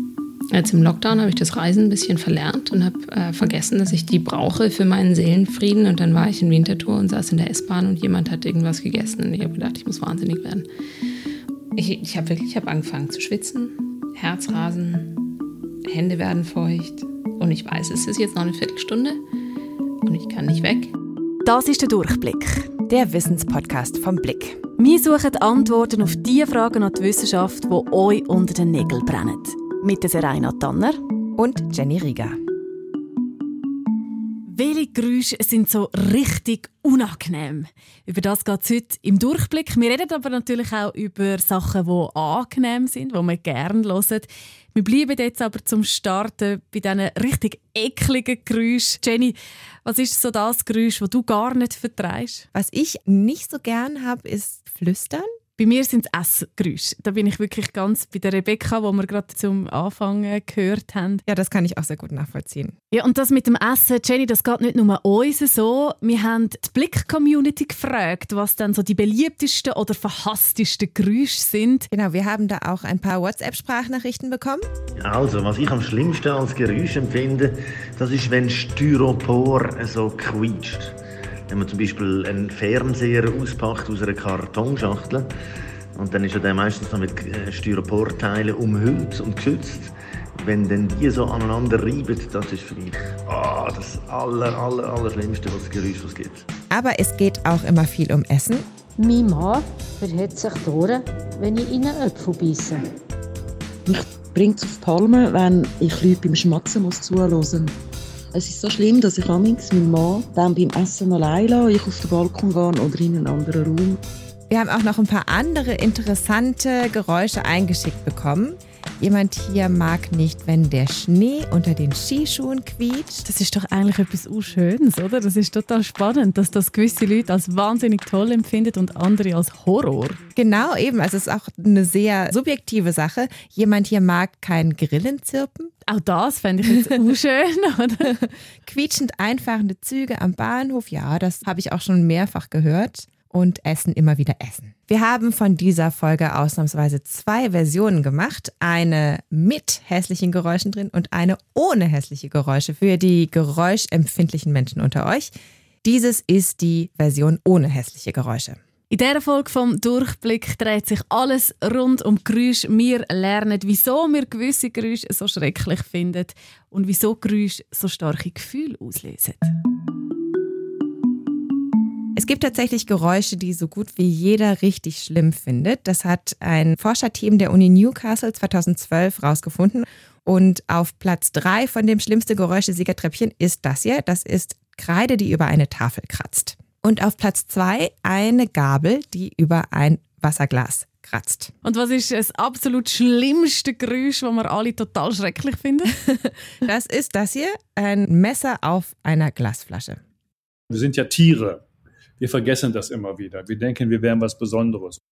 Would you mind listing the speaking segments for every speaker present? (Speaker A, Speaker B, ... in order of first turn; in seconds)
Speaker A: 0.5-10.7, 11.8-15.3, 15.8-19.2, 20.0-20.9
Speaker B: 21.4-22.7, 24.8-31.0, 34.5-52.5, 55.6-61.2, 62.9-71.9, 123.2-130.3, 135.8-138.1, 158.9-169.5, 191.6-195.9
Speaker C: 22.9-24.6, 31.4-32.4, 52.5-55.3, 61.3-62.7, 71.9-74.6, 96.7-98.6, 114.5-123.2, 130.3-135.7, 138.0-155.3, 155.8-158.6, 172.2-191.5, 196.1-200.0
Speaker D: 75.0-80.9, 81.5-85.3, 86.0-96.5
Speaker E: 99.0-102.8
Speaker F: 103.8-107.7, 108.3-114.0
Speaker G: 200.7-201.6, 202.2-205.0